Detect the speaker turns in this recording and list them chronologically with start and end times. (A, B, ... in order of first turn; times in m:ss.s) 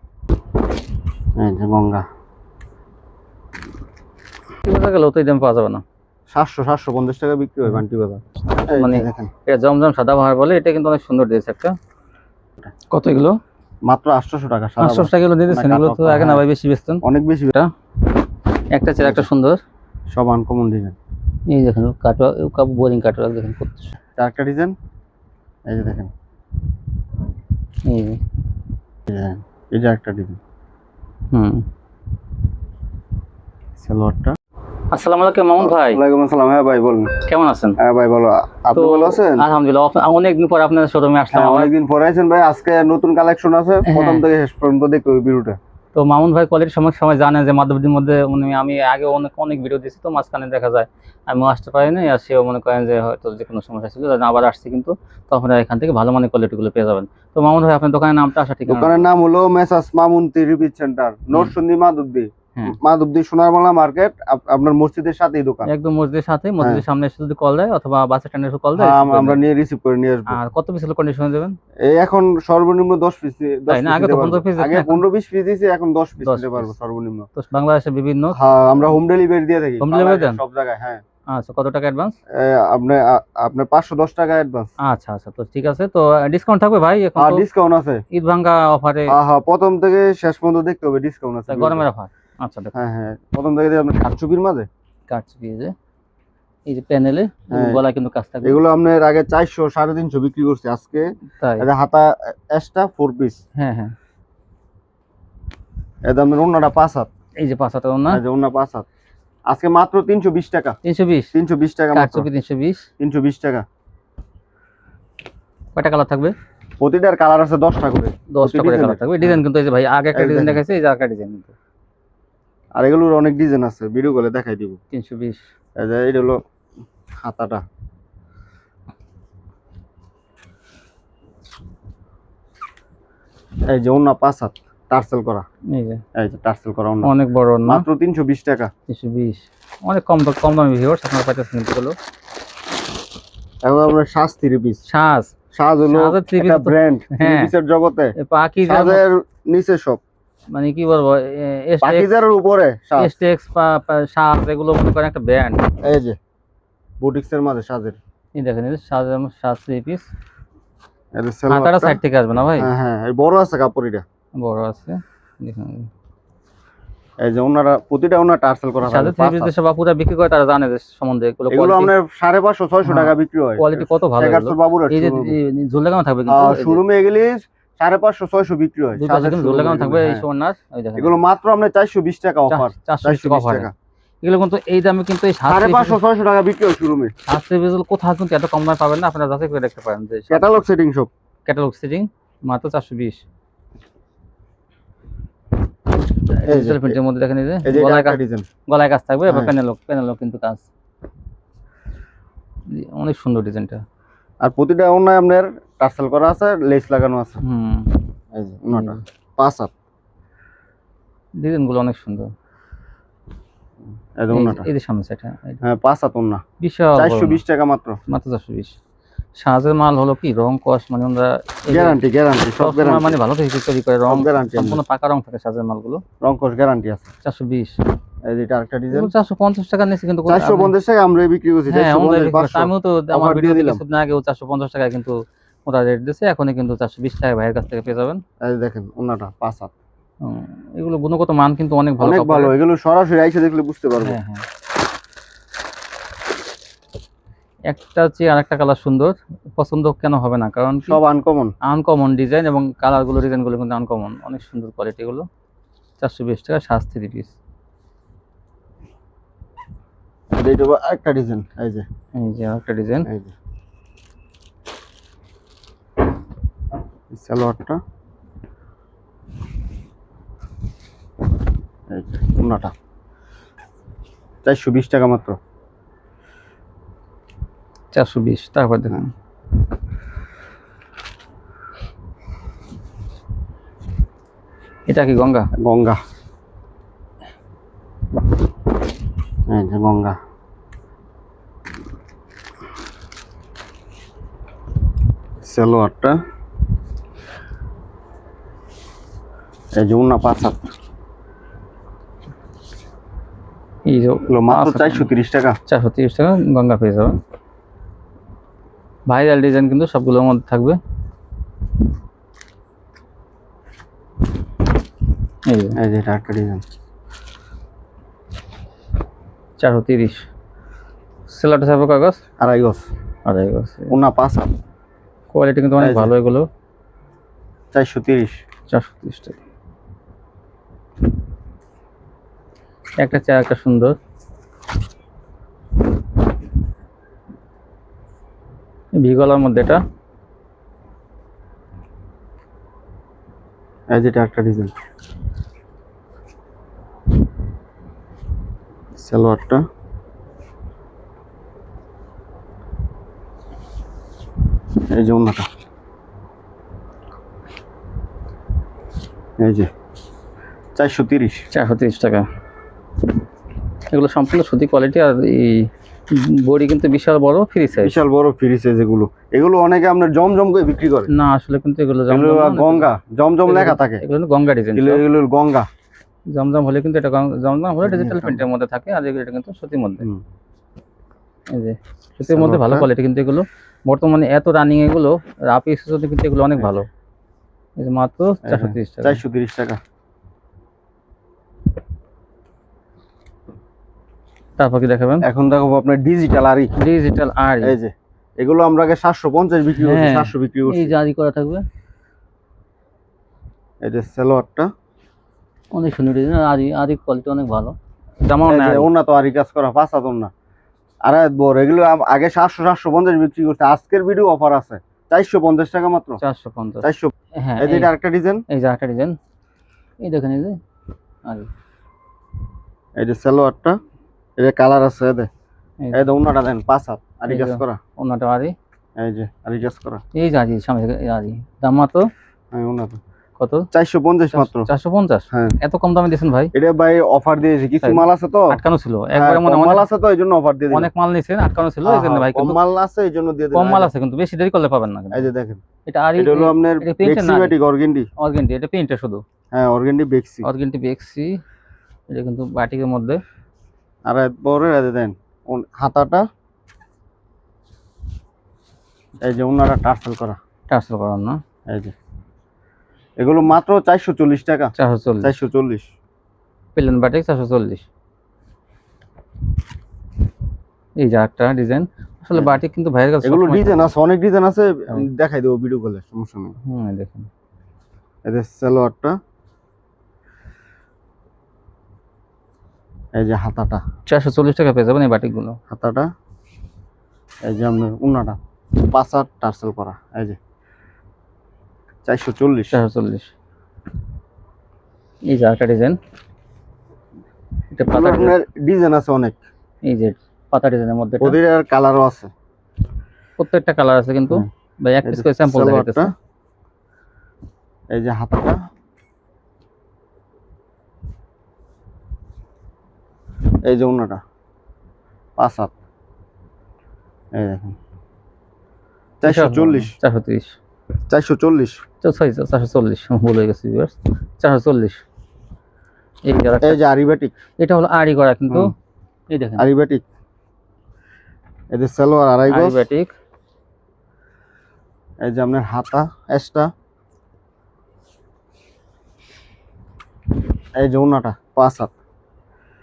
0:01.4-0:02.0 A
0:04.6-0:05.8 B
0:06.3-0:09.3 A
0:08.7-0:11.8 B
0:12.9-0:13.4 B
0:13.9-0:16.5 A
0:14.8-0:17.7 B
0:17.0-0:17.6 A
0:18.7-0:19.6 B
0:19.0-0:19.3 A
0:20.1-0:21.0 A
0:21.5-0:23.9 B
0:24.2-0:24.8 A
0:25.7-0:26.1 A
0:27.8-0:28.2 B
0:29.1-0:30.4 A
0:31.3-0:31.6 B
0:33.8-0:34.4 A
0:34.9-0:36.0 B
0:35.6-0:37.2 A
0:37.2-0:37.8 B
0:37.8-0:39.4 A
0:38.7-0:41.7 B
0:41.3-0:45.6 A
0:43.8-0:44.2 B
0:46.0-0:59.0 B
0:58.7-1:05.7 A
1:05.7-1:09.4 B
1:08.8-1:10.4 A
1:10.3-1:11.6 B
1:11.8-1:17.3 A
1:13.7-1:15.0 B
1:16.2-1:16.7 B
1:17.4-1:18.4 B
1:18.3-1:21.0 A
1:19.8-1:20.4 B
1:21.3-1:22.2 B
1:22.3-1:24.7 A
1:24.8-1:27.4 B
1:27.2-1:28.0 A
1:28.1-1:29.2 B
1:29.1-1:31.8 A
1:31.5-1:32.8 B
1:32.8-1:34.7 A
1:35.1-1:35.7 B
1:36.7-1:38.6 B
1:37.5-1:37.8 A
1:38.4-1:43.4 A
1:41.4-1:41.7 B
1:43.6-1:43.9 B
1:46.0-1:47.1 A
1:47.4-1:48.2 B
1:48.1-1:48.9 A
1:49.5-1:50.8 A
1:50.8-1:51.3 B
1:51.3-1:52.3 A
1:51.9-1:52.9 B
1:53.0-1:53.6 A
1:55.8-1:56.4 B
1:56.8-1:59.4 A
1:58.3-2:01.5 B
2:00.2-2:00.6 A
2:02.8-2:04.8 A
2:04.9-2:05.4 B
2:05.8-2:06.4 A
2:07.2-2:07.6 A
2:13.7-2:15.4 A
2:15.7-2:16.0 B
2:16.2-2:17.1 A
2:17.0-2:17.8 B
2:17.7-2:18.7 A
2:18.9-2:22.0 B
2:23.6-2:24.8 A
2:24.9-2:25.4 B
2:25.5-2:28.2 A
2:25.9-2:27.5 B
2:28.2-2:29.0 B
2:28.7-2:30.0 A
2:30.5-2:32.1 B
2:31.8-2:33.2 A
2:33.0-2:35.7 B
2:35.8-2:36.2 A
2:37.0-2:38.0 A
2:38.4-2:40.1 B
2:41.2-2:42.0 A
2:41.5-2:42.7 B
2:42.6-2:44.0 A
2:44.4-2:45.9 B
2:47.2-2:49.5 A
2:48.8-2:51.9 B
2:51.5-2:55.4 A
2:52.8-2:56.8 B
2:56.3-3:00.2 A
2:59.0-3:01.2 B
3:01.0-3:03.7 A
3:02.5-3:03.7 B
3:04.2-3:06.0 B
3:05.5-3:07.1 A
3:07.3-3:10.5 B
3:10.3-3:11.1 A
3:11.5-3:13.2 B
3:16.3-3:20.7 B
3:16.5-3:17.0 A
3:17.6-3:18.5 A
3:19.3-3:19.5 A
3:22.7-3:23.8 B
3:24.4-3:27.4 A
3:27.4-3:28.0 B
3:28.3-3:29.7 A
3:28.7-3:29.0 B
3:31.4-3:32.3 B
3:34.2-3:34.7 A
3:34.3-3:35.6 B
3:35.6-3:36.4 A
3:36.6-3:37.4 B
3:37.0-3:38.0 A
3:38.1-3:38.8 B
3:39.4-3:42.0 B
3:41.7-3:43.2 A
3:42.6-3:46.0 B
3:44.1-3:44.8 A
3:46.2-3:47.1 A
3:47.2-3:47.8 B
3:48.2-3:49.1 A
3:48.9-3:50.7 B
3:50.3-3:53.8 A
3:51.7-3:58.2 B
3:58.4-3:59.7 A
4:00.2-4:02.5 B
4:02.0-4:04.2 A
4:04.0-4:04.5 B
4:07.7-4:11.0 B
4:10.9-4:11.6 A
4:11.6-4:15.3 B
4:16.0-4:17.4 B
4:20.3-4:21.8 A
4:22.2-4:23.1 B
4:23.1-4:23.3 A
4:27.1-4:27.8 A
4:31.9-4:32.7 A
4:34.4-4:35.4 A
4:37.9-4:39.1 B
4:44.9-4:45.5 B
4:45.6-4:46.0 A
4:49.5-4:50.2 A
4:55.4-4:56.2 A
4:59.8-5:00.7 A
5:03.9-5:05.1 B
5:04.3-5:05.6 A
5:05.7-5:07.2 B
5:09.1-5:10.8 B
5:15.5-5:15.8 B
5:15.8-5:16.6 A
5:19.6-5:20.2 B
5:21.3-5:22.2 B
5:22.4-5:22.9 A
5:23.3-5:24.0 B
5:23.9-5:24.5 A
5:25.3-5:26.5 B
5:25.8-5:26.1 A
5:27.7-5:28.4 A
5:28.7-5:29.4 B
5:33.0-5:34.0 B
5:39.0-5:39.8 B
5:43.9-5:44.8 A
5:49.0-5:49.6 A
5:54.9-5:55.5 A
5:59.4-5:59.7 A
6:00.8-6:01.4 A
6:01.5-6:02.2 B
6:03.9-6:08.0 B
6:07.8-6:11.1 A
6:11.1-6:12.9 B
6:12.1-6:14.0 A
6:13.5-6:15.0 B
6:14.8-6:15.7 A
6:16.3-6:20.1 B
6:17.8-6:18.4 A
6:21.5-6:26.9 B
6:22.3-6:22.9 A
6:27.8-6:29.2 B
6:28.4-6:29.8 A
6:34.6-6:35.3 B
6:35.2-6:36.7 A
6:36.8-6:37.8 B
6:37.6-6:40.9 A
6:39.8-6:41.6 B
6:43.8-6:44.7 A
6:45.7-6:48.9 B
6:48.5-6:50.3 A
6:51.0-6:56.2 A
6:56.2-6:57.9 B
6:56.8-6:58.4 A
6:58.5-6:59.2 B
7:00.0-7:00.6 B
7:01.2-7:01.5 B
7:03.0-7:03.8 A
7:04.4-7:05.3 A
7:05.9-7:07.8 A
7:07.3-7:08.5 B
7:09.0-7:10.0 A
7:10.1-7:12.1 B
7:12.5-7:13.0 A
7:13.4-7:13.7 B
7:13.7-7:14.7 A
7:14.3-7:16.5 B
7:16.5-7:18.6 A
7:17.8-7:19.9 B
7:19.1-7:20.9 A
7:20.7-7:22.6 B
7:21.8-7:23.9 A
7:23.5-7:25.3 B
7:25.1-7:25.6 A
7:25.9-7:27.6 B
7:26.2-7:28.1 A
7:28.2-7:29.2 B
7:29.5-7:30.5 A
7:30.4-7:31.4 B
7:32.1-7:33.2 B
7:34.1-7:36.3 A
7:39.2-7:40.4 A
7:40.7-7:41.4 B
7:41.7-7:41.9 A
7:43.2-7:45.9 A
7:44.8-7:45.3 B
7:46.8-7:47.9 B
7:51.0-7:53.9 B
7:53.2-7:56.6 A
7:56.6-7:57.3 B
7:58.2-7:59.2 A
8:03.2-8:03.8 A
8:04.1-8:05.6 B
8:05.7-8:06.1 A
8:07.4-8:10.4 A
8:12.0-8:12.8 A
8:12.7-8:13.3 B
8:15.3-8:16.0 B
8:17.7-8:18.4 B
8:17.9-8:19.4 A
8:19.8-8:21.4 B
8:21.2-8:22.3 A
8:23.4-8:26.1 B
8:25.0-8:26.1 A
8:27.9-8:28.6 A
8:33.6-8:34.2 A
8:35.4-8:35.7 A
8:37.4-8:37.8 A
8:39.2-8:39.9 A
8:39.2-8:40.6 B
8:41.1-8:41.8 A
8:42.0-8:45.0 B
8:46.2-8:46.8 B
8:46.6-8:47.4 A
8:47.6-8:48.7 B
8:49.3-8:49.7 B
8:49.6-8:50.0 A
8:51.7-8:52.8 A
8:52.5-8:53.1 B
8:55.2-8:56.7 A
9:00.8-9:01.9 A